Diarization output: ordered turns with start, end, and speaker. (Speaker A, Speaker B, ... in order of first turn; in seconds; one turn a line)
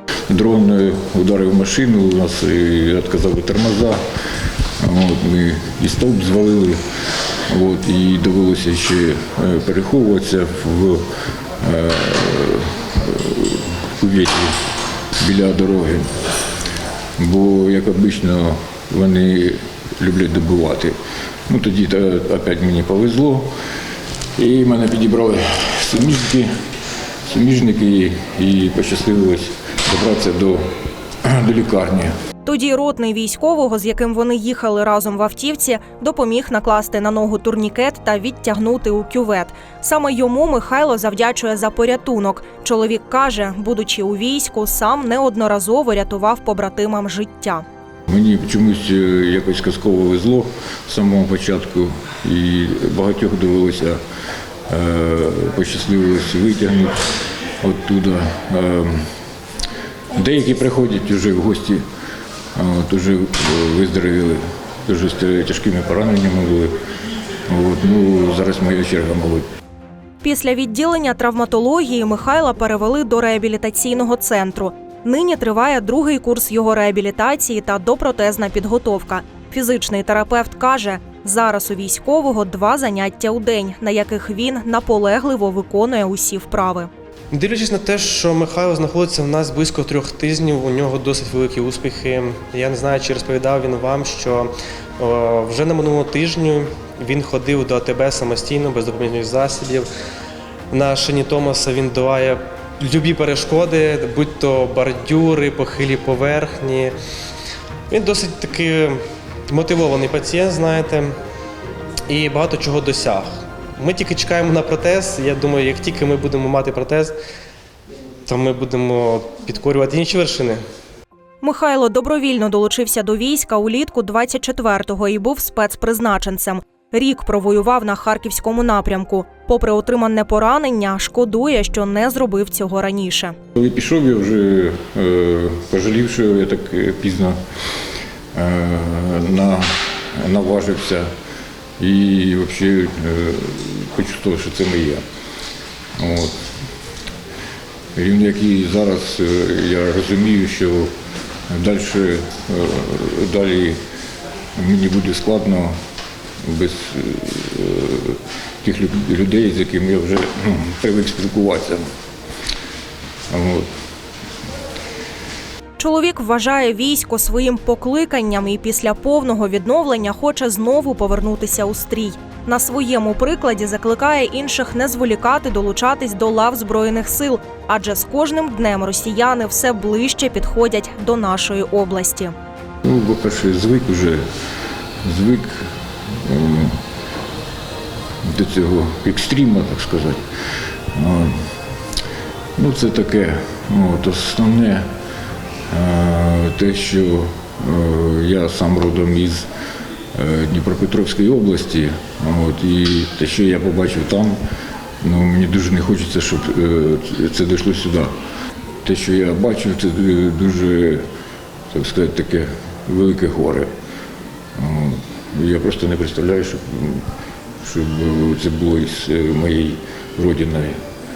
Speaker A: 0.3-4.0
Speaker A: 4.8-6.8
Speaker A: 7.5-11.0
Speaker A: 11.6-14.6
Speaker A: 15.2-16.1
Speaker A: 17.2-20.9
Speaker A: 21.5-23.5
Speaker A: 24.4-26.5
Speaker A: 27.2-30.6
Speaker A: 31.2-32.1
Speaker B: 32.4-47.6
Speaker A: 48.1-54.0
Speaker A: 54.7-57.0
Speaker A: 57.6-59.1
Speaker A: 60.1-61.8
Speaker A: 62.5-66.8
Speaker A: 67.5-69.4
Speaker B: 70.2-86.9
Speaker C: 87.3-99.9
Speaker C: 100.7-106.9
Speaker C: 107.9-111.1
Speaker C: 112.1-117.1
Speaker C: 118.2-120.6
Speaker B: 121.4-133.3
Speaker A: 133.5-137.4
Speaker A: 138.3-141.1
Speaker A: 141.8-145.0
Speaker A: 146.0-146.3
Speaker A: 147.9-150.9
Speaker A: 151.5-153.8
Speaker A: 154.6-155.7
Speaker A: 156.4-161.8
Speaker A: 163.3-163.7
Speaker B: 165.8-182.3
Speaker A: 182.8-184.2
Speaker A: 185.0-186.8
Speaker A: 188.2-190.2
Speaker A: 190.9-191.4
Speaker A: 192.6-194.9
Speaker A: 195.7-199.5
Speaker A: 200.1-204.4
Speaker A: 205.0-208.1
Speaker A: 208.8-211.0
Speaker A: 211.7-213.7
Speaker A: 214.6-217.0
Speaker A: 217.6-220.8